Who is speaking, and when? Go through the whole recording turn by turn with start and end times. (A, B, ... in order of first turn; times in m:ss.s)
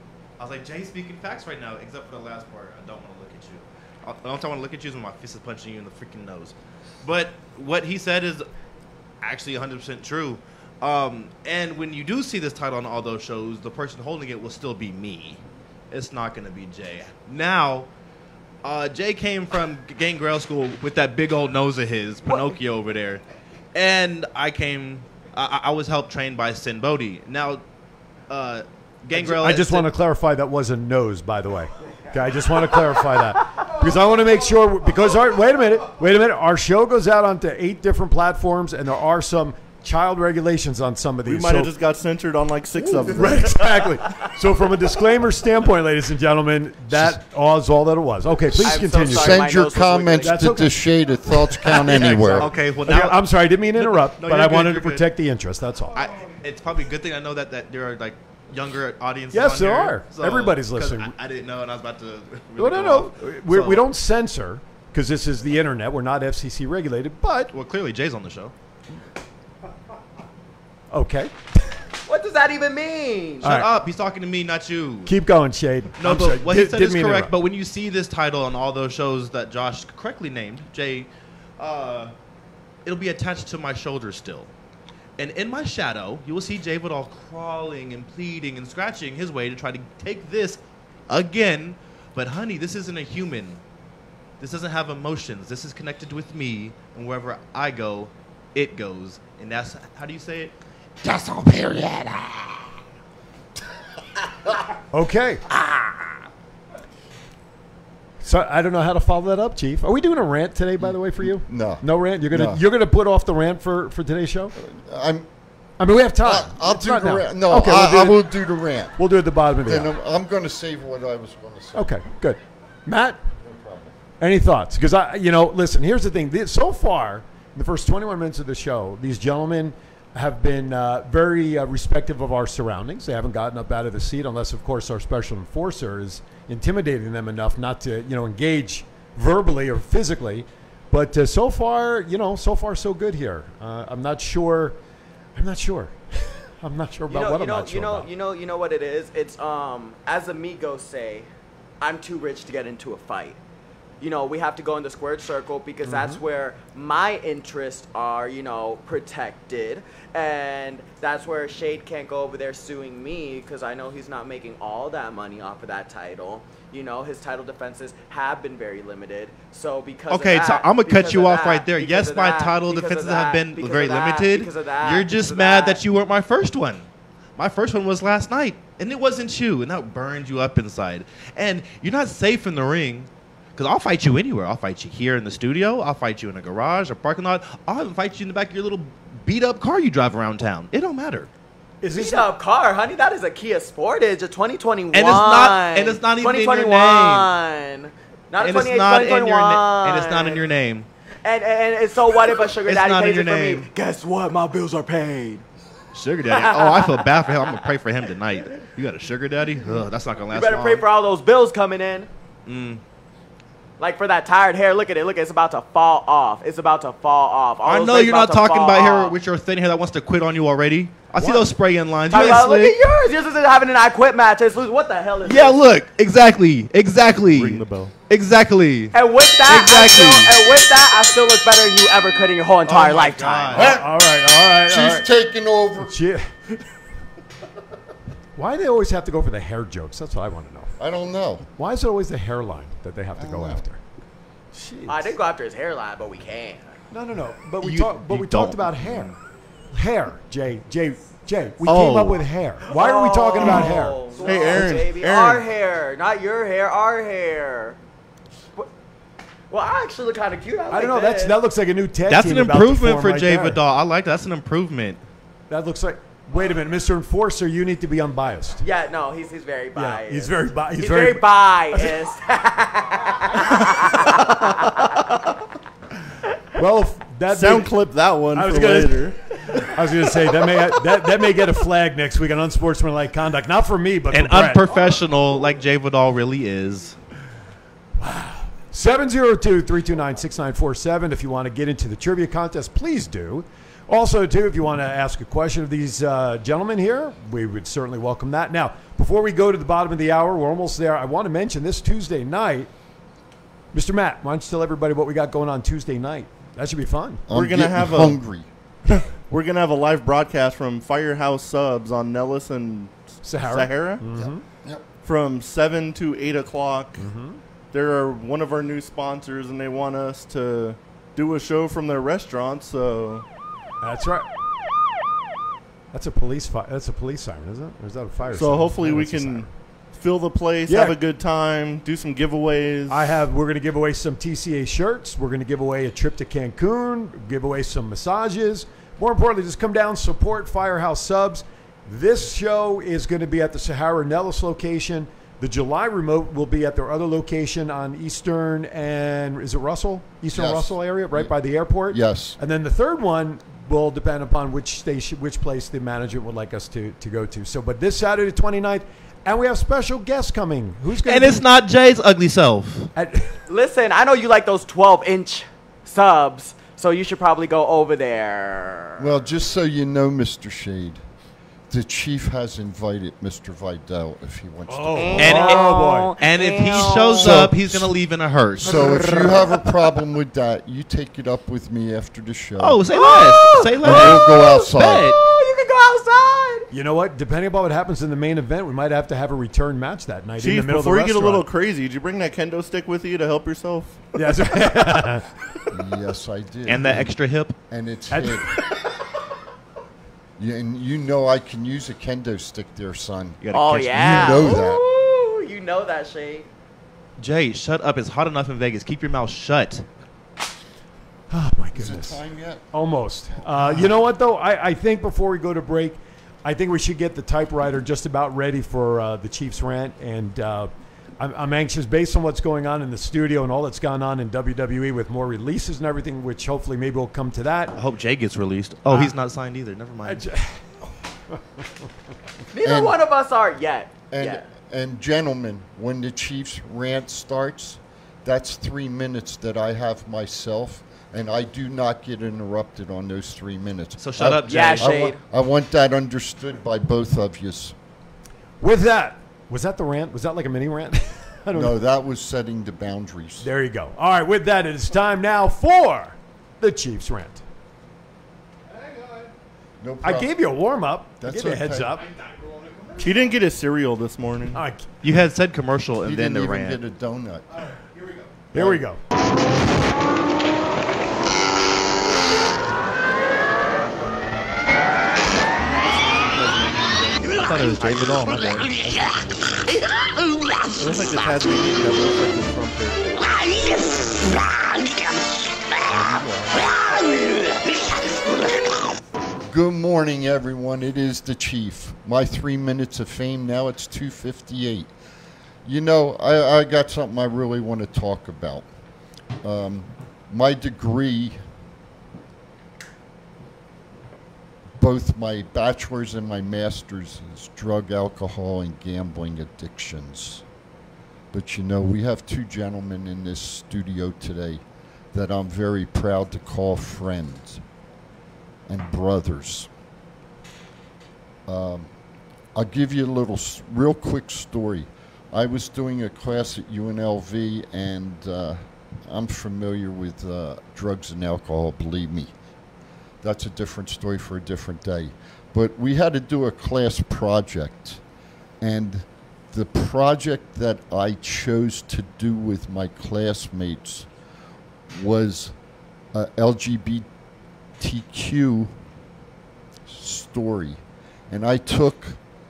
0:00.4-0:08.5 A
0:09.2-0:17.9 A
0:18.6-0:23.2 A
0:23.7-0:27.6 A
0:28.3-0:29.9 A
0:29.1-0:41.7 B
0:41.2-0:43.6 C
0:42.8-0:49.5 B
0:48.6-0:50.5 D
0:48.7-0:52.5 E
0:50.2-0:56.1 B
0:51.8-0:55.0 A
0:55.9-1:03.8 A
0:59.3-1:01.1 B
1:02.6-1:07.5 B
1:07.5-1:08.5 A
1:10.9-1:11.3 B
1:12.0-1:13.5 D
1:13.4-1:13.7 B
1:13.4-1:15.1 A
1:15.0-1:17.3 B
1:16.0-1:22.1 A
1:22.8-1:24.5 A
1:25.2-1:33.6 A
1:34.4-1:40.5 A
1:44.9-1:45.4 B
1:48.2-1:54.5 B
1:50.8-1:52.6 E
1:54.6-1:55.3 E
1:55.8-1:58.2 B
1:56.2-1:59.0 E
1:59.0-1:59.9 B
1:59.6-2:02.0 E
2:01.8-2:03.2 B
2:03.4-2:04.0 E
2:04.2-2:24.8 B
2:25.3-2:28.1 B
2:27.1-2:31.3 D
2:31.8-2:33.4 D
2:34.0-2:55.8 D
2:35.8-2:36.2 B
2:50.1-3:11.3 A
3:11.8-3:12.3 B
3:12.0-3:20.4 D
3:14.9-3:17.3 A
3:18.4-3:20.9 A
3:21.2-3:25.4 D
3:22.6-3:23.7 A
3:25.9-3:30.8 A
3:26.3-3:27.0 D
3:30.3-3:32.1 D
3:32.5-3:32.8 A
3:33.8-3:39.1 D
3:37.6-3:42.8 A
3:41.2-3:41.5 B
3:42.1-3:45.6 D
3:45.2-3:50.3 A
3:47.3-3:47.9 C
3:48.9-3:53.6 D
3:52.6-3:53.8 A
3:53.5-3:53.8 E
3:53.5-3:55.1 B
3:54.6-3:55.9 E
3:55.8-3:56.3 B
3:58.4-4:00.7 B
4:00.8-4:01.5 E
4:01.6-4:03.8 B
4:03.2-4:03.6 E
4:04.5-4:05.1 B
4:04.9-4:06.7 D
4:06.9-4:09.1 B
4:07.6-4:09.2 A
4:09.7-4:14.7 B
4:11.6-4:12.1 A
4:11.7-4:12.1 C
4:12.7-4:17.8 D
4:14.2-4:15.4 C
4:19.5-4:21.4 D
4:20.7-4:23.6 B
4:22.1-4:25.0 A
4:25.5-4:28.6 B
4:28.6-4:35.0 D
4:29.8-4:31.9 B
4:36.6-4:37.7 B
4:37.3-4:39.2 C
4:38.3-4:44.7 B
4:44.1-4:47.0 A
4:48.0-5:02.7 B
5:03.7-5:07.2 B
5:07.3-5:08.5 E
5:07.3-5:08.2 C
5:08.9-5:14.0 C
5:13.2-5:14.4 B
5:14.2-5:14.8 E
5:15.0-5:17.1 C
5:17.0-5:17.4 B
5:17.7-5:23.2 C
5:23.8-5:24.3 B
5:25.9-5:29.5 B
5:28.3-5:33.1 C
5:30.7-5:31.0 B
5:32.9-6:01.4 B
5:50.3-5:51.3 E
5:51.9-5:52.4 E
6:01.0-6:02.9 A
6:03.0-6:03.4 B
6:03.5-6:09.0 D
6:09.0-6:11.0 E
6:11.7-6:15.5 E
6:14.7-6:16.1 B
6:15.0-6:17.3 D
6:15.2-6:19.2 A
6:17.1-6:17.9 E
6:18.6-6:22.8 E
6:19.0-6:19.4 D
6:22.6-6:25.2 A
6:22.9-6:26.7 D
6:23.8-6:25.1 E
6:26.7-6:31.4 B
6:30.4-6:34.0 C
6:34.1-6:35.2 B
6:35.7-6:37.1 E
6:36.6-6:37.5 A
6:37.7-6:38.6 E
6:38.1-6:38.5 B
6:40.4-6:44.8 E
6:43.4-6:44.5 A
6:43.5-6:46.5 D
6:47.2-6:49.8 A
6:51.3-6:52.2 B
6:51.8-6:52.6 E
6:52.7-7:07.7 B
6:53.3-6:53.9 E
7:07.8-7:10.2 A
7:08.9-7:09.2 B
7:10.0-7:10.6 B
7:12.5-7:14.4 D
7:12.6-7:13.0 E
7:14.1-7:27.8 E
7:24.0-7:25.0 A
7:24.5-7:25.2 D
7:28.6-7:31.8 B
7:31.5-7:33.5 E
7:33.4-7:37.4 B
7:39.8-7:40.3 E
7:40.0-7:42.0 B
7:41.2-7:42.0 E
7:43.0-7:44.6 C
7:44.5-7:44.9 B
7:45.0-7:46.8 A
7:46.0-7:47.5 E
7:48.5-7:49.0 B
7:48.5-7:48.8 E
7:55.8-7:59.1 C
7:57.2-7:59.0 A
8:00.8-8:03.2 C
8:09.5-8:14.9 E
8:15.6-8:18.6 E
8:19.4-8:21.4 E
8:24.8-8:30.4 E
8:31.3-8:37.6 E
8:38.7-8:39.7 E
8:41.5-8:41.9 E
8:42.5-8:52.3 E
8:53.2-8:58.0 E
8:58.6-9:04.1 E
9:04.9-9:05.5 E
9:06.1-9:07.0 E
9:07.8-9:08.7 E
9:09.9-9:12.2 E